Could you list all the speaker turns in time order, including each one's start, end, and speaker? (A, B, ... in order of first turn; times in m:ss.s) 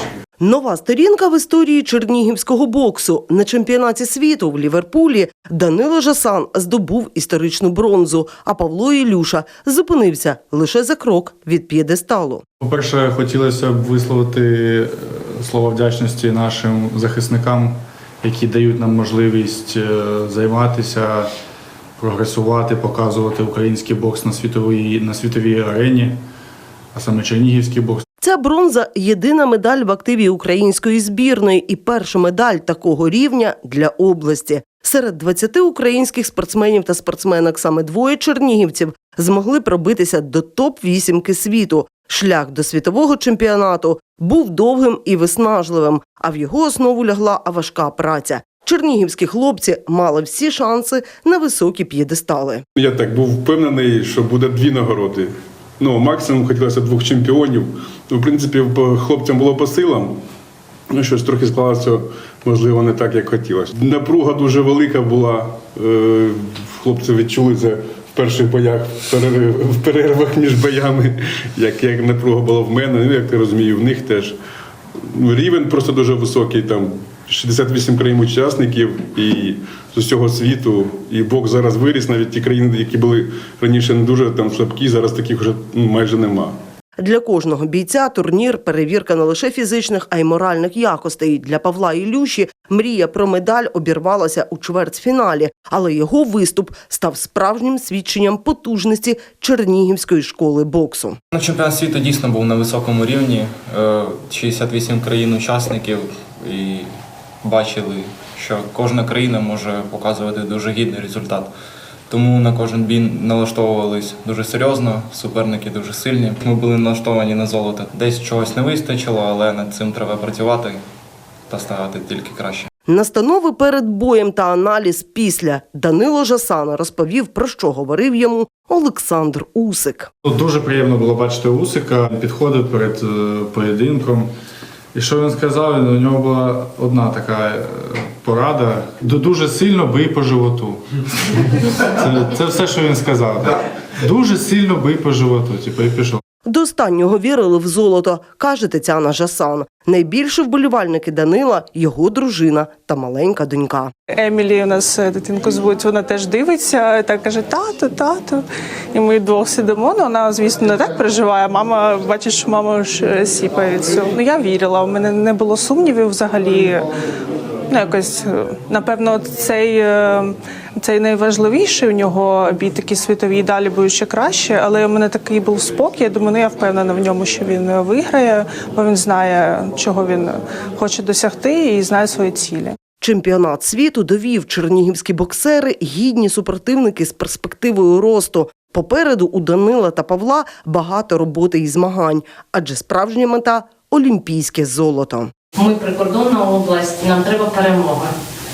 0:00.4-0:12.4 A
0:12.6-0:21.3 B
0:22.0-0:26.1 B
0:26.9-0:28.0 B
0:28.2-0:52.6 A
0:52.8-1:00.2 C
1:00.9-1:14.4 C
1:15.0-1:26.6 C
1:27.0-1:41.2 A
1:41.3-1:46.9 D
1:47.4-1:51.5 D
1:52.1-2:00.8 D
2:01.5-2:02.7 D
2:02.9-2:10.1 A
2:10.2-2:14.3 B
2:14.9-2:20.8 B
2:21.8-2:26.2 B
2:26.5-2:33.9 A
2:34.2-2:46.9 E
2:47.7-3:02.8 E
3:03.0-3:15.3 A
3:15.6-3:18.2 F